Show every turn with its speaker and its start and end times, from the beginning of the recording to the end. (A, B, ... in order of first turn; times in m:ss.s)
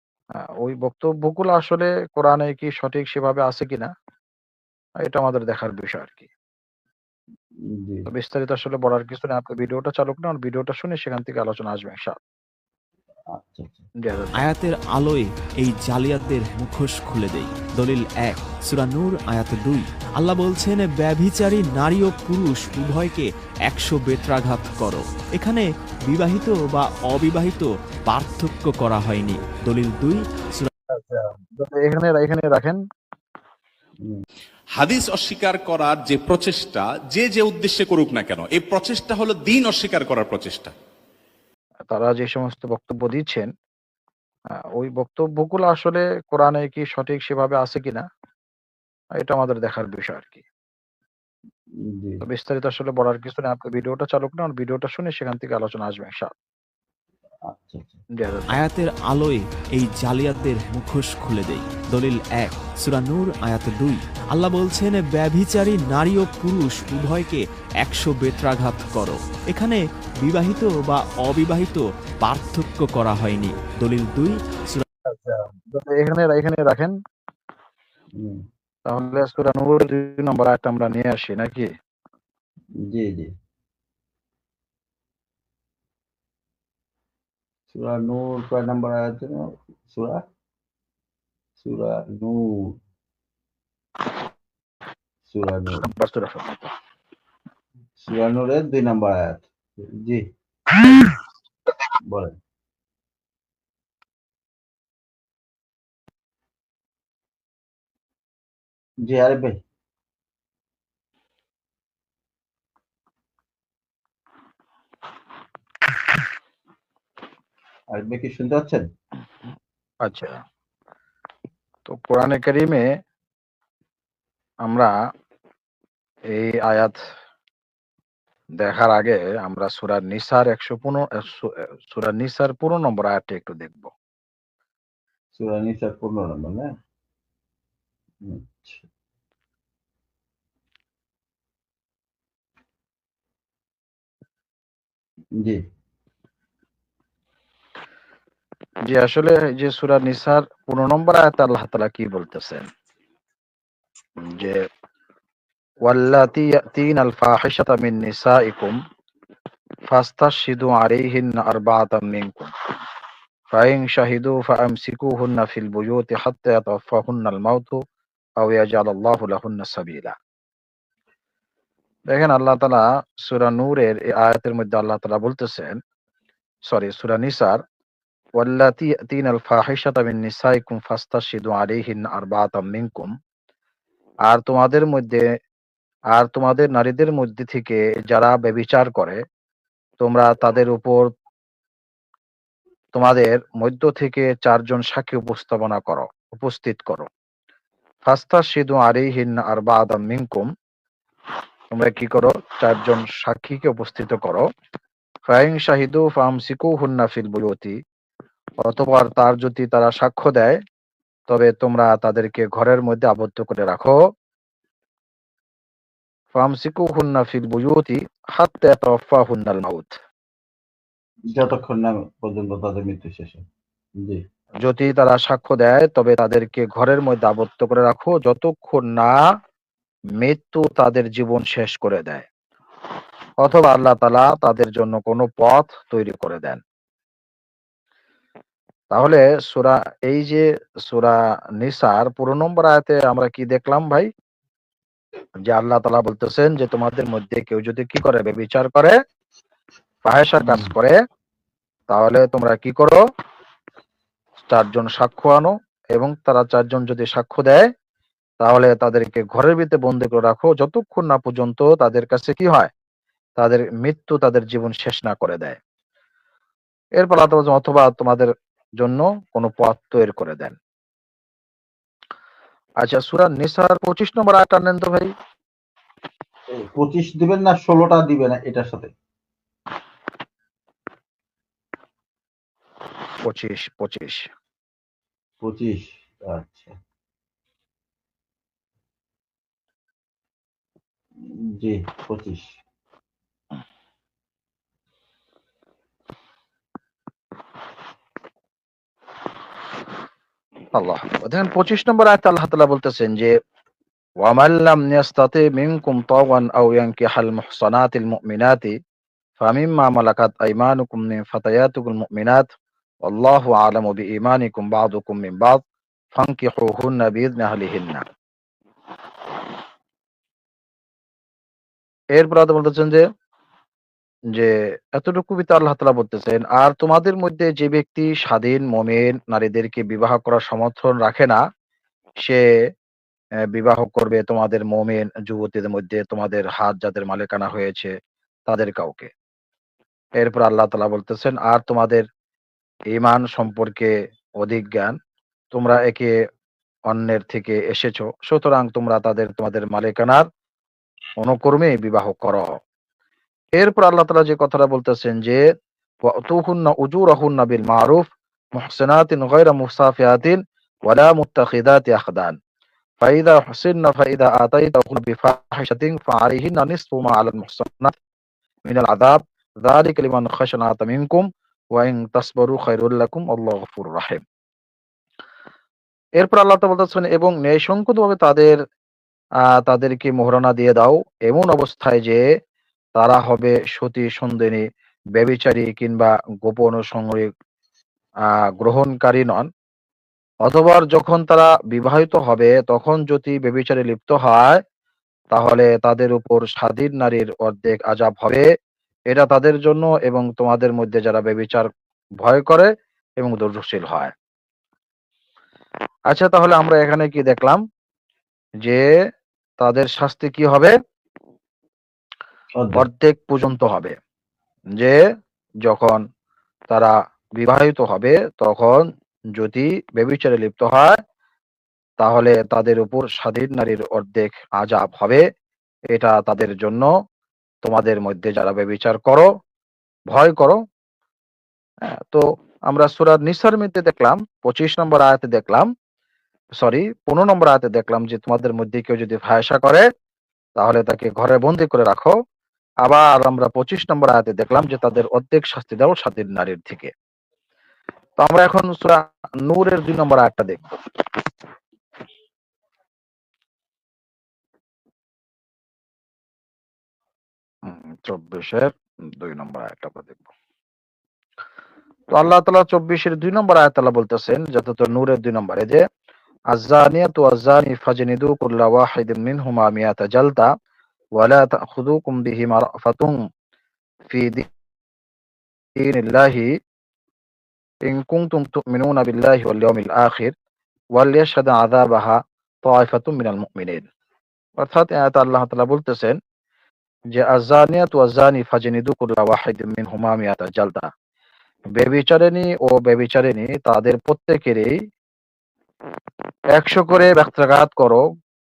0:00.6-0:03.9 A
0:05.0-0:06.3 A
0:07.6-0:08.1 B
0:08.1-0:12.2 A
0:13.3-0:13.8 B
0:14.0-0:14.4 A
0:14.4-0:30.7 C
0:30.9-0:32.8 A
0:34.8-0:40.7 D
0:41.9-0:43.5 A
0:44.5-0:48.0 A
0:49.2-0:50.4 A
0:51.8-0:52.2 B
0:52.2-0:56.3 A
0:57.4-0:58.0 B
0:58.1-0:58.5 A
0:58.5-1:14.8 C
1:15.0-1:16.9 A
1:18.2-1:18.4 B
1:18.9-1:21.7 A
1:22.8-1:23.3 B
1:27.7-1:30.2 B
1:31.6-1:32.8 B
1:35.3-1:35.8 B
1:35.8-1:36.6 A
1:38.0-1:40.2 B
1:42.0-1:42.3 B
1:49.0-1:49.6 B
1:57.9-1:58.8 B
2:00.0-2:00.4 A
2:01.9-2:02.9 A
2:04.6-2:04.9 A
2:06.3-2:07.0 A
2:08.6-2:13.9 A
2:15.3-2:16.7 B
2:18.2-2:18.8 B
2:25.4-2:25.6 B
2:28.9-2:32.7 A
2:34.2-2:34.6 A
2:35.8-2:38.8 A
2:39.9-2:42.5 A
2:43.5-2:47.8 A
2:48.4-2:50.1 A
2:52.1-2:55.8 A
2:56.7-2:57.6 A
2:58.4-3:03.1 A
3:04.3-3:05.2 A
3:06.1-3:09.2 A
3:10.0-3:11.1 A
3:12.9-3:17.1 A
3:18.0-3:20.5 A
3:21.7-3:24.5 A
3:25.3-3:27.8 A
3:28.6-3:30.6 A
3:31.3-3:34.0 A
3:36.3-3:40.0 A
3:41.3-3:43.4 B
3:44.6-3:49.2 A
3:50.2-3:52.3 A
3:53.4-3:56.6 A
3:58.9-4:04.1 A
4:05.4-4:09.0 A
4:10.1-4:11.0 A
4:11.9-4:13.0 A
4:14.5-4:17.7 A
4:18.4-4:22.7 A
4:23.4-4:25.6 A
4:27.0-4:30.6 A
4:32.8-4:35.1 A
4:36.5-4:38.9 B
4:43.2-4:44.3 A
4:45.4-4:46.8 B
4:51.2-4:52.5 B
5:00.7-5:03.4 A
5:04.2-5:08.8 A
5:09.4-5:12.5 A
5:13.0-5:15.6 A
5:16.1-5:18.0 A
5:22.1-5:23.0 A
5:24.3-5:31.4 A
5:33.5-5:37.9 A
5:38.5-5:39.1 A
5:40.2-5:42.1 A
5:42.9-5:45.0 A
5:45.5-5:46.1 A
5:46.9-5:50.3 A
5:51.2-5:52.6 A
5:53.5-5:55.4 A
5:56.1-6:02.4 A
6:03.0-6:07.9 A
6:08.7-6:14.2 A
6:16.2-6:18.6 A
6:19.5-6:22.2 A
6:23.0-6:24.6 A
6:25.2-6:27.3 A
6:28.6-6:29.5 A
6:30.4-6:34.6 A
6:35.3-6:38.4 A
6:39.1-6:41.7 A
6:42.2-6:44.1 A
6:46.1-6:47.6 A
6:49.6-6:50.7 A
6:52.7-6:54.0 A
6:55.6-6:56.0 A
6:56.7-7:01.0 A
7:02.0-7:05.2 A
7:05.9-7:06.9 A
7:07.6-7:09.3 A
7:10.1-7:10.6 A
7:11.8-7:15.7 A
7:16.6-7:19.8 A
7:20.6-7:22.1 A
7:22.8-7:26.9 A
7:28.2-7:30.7 A
7:37.6-7:40.2 A
7:42.1-7:45.8 A
7:46.5-7:50.5 A
7:51.2-7:53.2 A
7:54.1-7:54.5 A
7:55.8-7:56.5 A
7:57.8-8:00.3 A
8:01.0-8:03.8 A
8:04.6-8:06.2 A
8:07.1-8:10.9 A
8:11.7-8:14.8 A
8:16.5-8:18.0 A